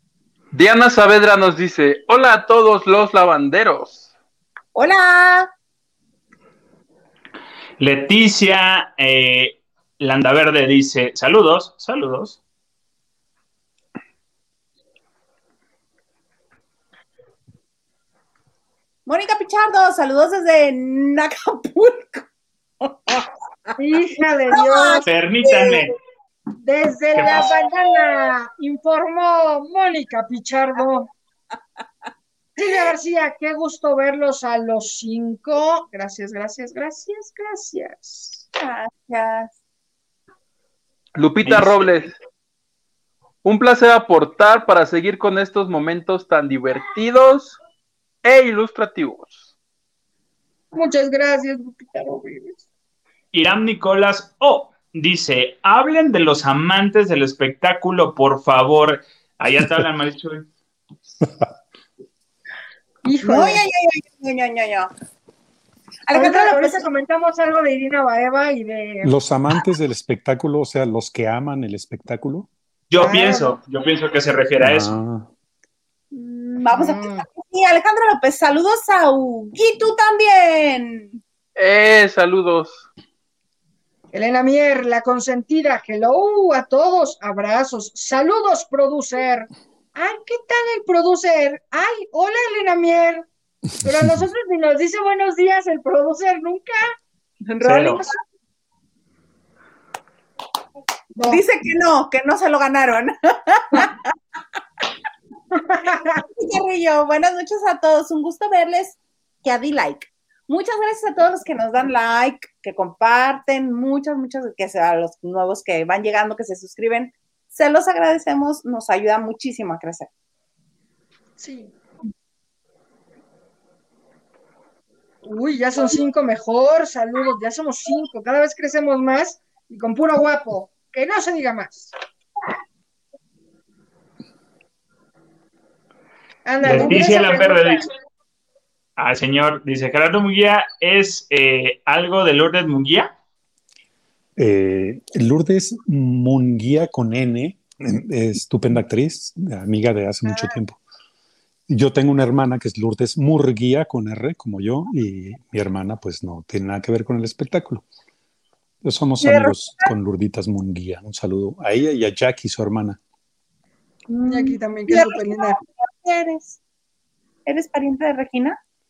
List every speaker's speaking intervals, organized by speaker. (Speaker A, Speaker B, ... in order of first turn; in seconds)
Speaker A: 0.5-4.0, 41.2-42.1, 43.4-47.6, 48.2-49.4, 81.6-82.8
Speaker B: 4.8-5.5, 19.1-22.3, 22.8-23.3, 24.5-25.8, 38.5-39.5, 63.2-64.9, 66.1-66.8, 76.1-81.2, 97.5-98.2, 101.3-104.1, 106.4-120.1, 164.1-166.6, 167.5-168.6
Speaker C: 7.8-12.4, 25.1-26.0, 27.1-27.5, 41.4-41.9, 53.3-60.5, 72.9-74.9, 97.6-98.0, 136.6-137.8, 139.0-143.1
Speaker D: 23.8-25.8, 26.6-31.1, 32.6-38.4, 50.7-52.6, 63.0-63.6, 66.1-69.1, 73.0-73.5, 76.7-77.2, 84.1-93.3, 93.8-96.8, 101.2-101.4, 105.5-106.2, 121.4-121.7, 125.2-131.9, 136.4-137.9, 150.2-150.6, 159.2-159.9, 164.3-165.6
Speaker E: 69.0-72.5, 74.6-75.3, 144.4-150.8, 151.7-157.8, 158.8-163.0